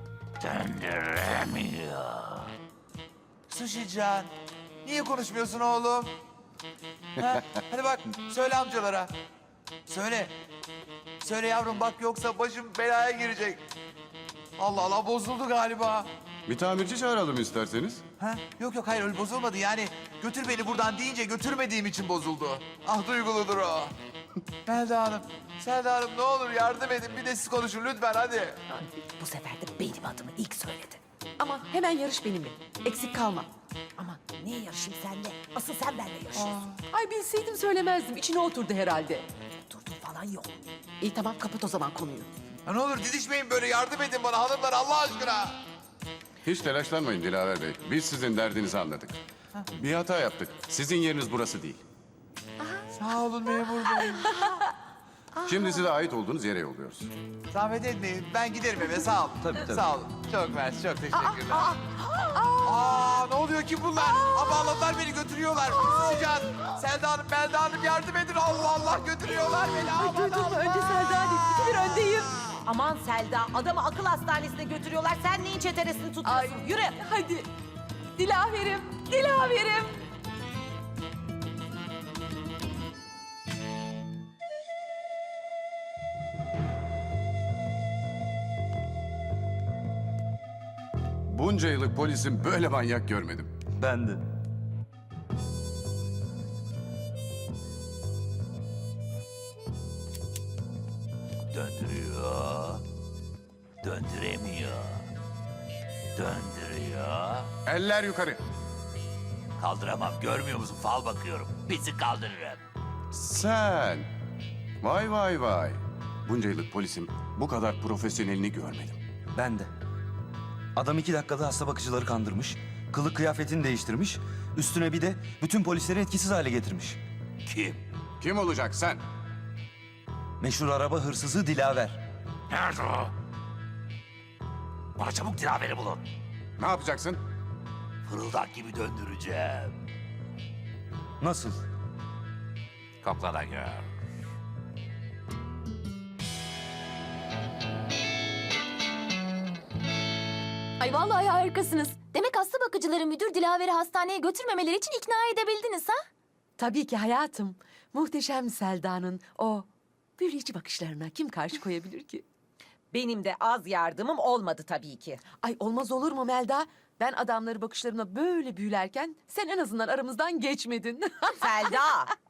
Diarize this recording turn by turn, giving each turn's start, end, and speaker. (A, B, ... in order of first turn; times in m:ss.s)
0:00.4-0:02.5 A
0:03.5-0:06.2 B
0:07.2-0:09.1 B
0:09.8-0:10.3 B
0:11.2-0:13.6 B
0:14.6-0:16.1 B
0:16.5-0:18.0 C
0:18.2-0:23.9 B
0:24.6-0:28.6 B
0:29.2-0:31.0 D
0:31.4-0:33.5 E
0:34.0-0:36.6 D
0:36.4-0:36.8 B
0:36.9-0:39.2 E
0:39.7-0:40.6 D
0:41.0-0:42.3 E
0:42.6-0:45.6 B
0:46.4-0:49.2 C
0:49.7-0:51.8 C
0:52.9-0:54.6 B
0:55.4-0:57.1 C
0:57.5-1:01.8 B
0:59.4-0:59.8 F
1:01.2-1:02.7 E
1:02.6-1:11.2 B
1:09.6-1:12.3 E
1:12.6-1:17.0 D
1:16.2-1:17.5 E
1:18.2-1:20.0 E
1:31.3-1:33.6 C
1:33.8-1:34.2 F
1:41.5-1:42.8 A
1:43.8-1:45.0 A
1:46.1-1:47.5 A
1:47.6-1:48.4 C
1:49.6-1:52.6 A
1:53.1-1:54.1 C
1:54.8-1:59.0 C
1:59.3-1:59.7 F
2:00.8-2:07.0 F
2:07.4-2:07.8 A
2:08.2-2:09.0 C
2:10.4-2:12.0 F
2:12.5-2:13.1 A
2:15.0-2:16.0 A
2:16.6-2:17.2 C
2:18.0-2:19.8 A
2:21.2-2:21.6 F
2:23.0-2:23.9 A
2:30.8-2:36.0 G
2:36.6-2:39.6 E
2:40.2-2:42.2 E
2:42.9-2:45.2 D
2:45.4-2:51.7 E
2:51.4-2:52.1 D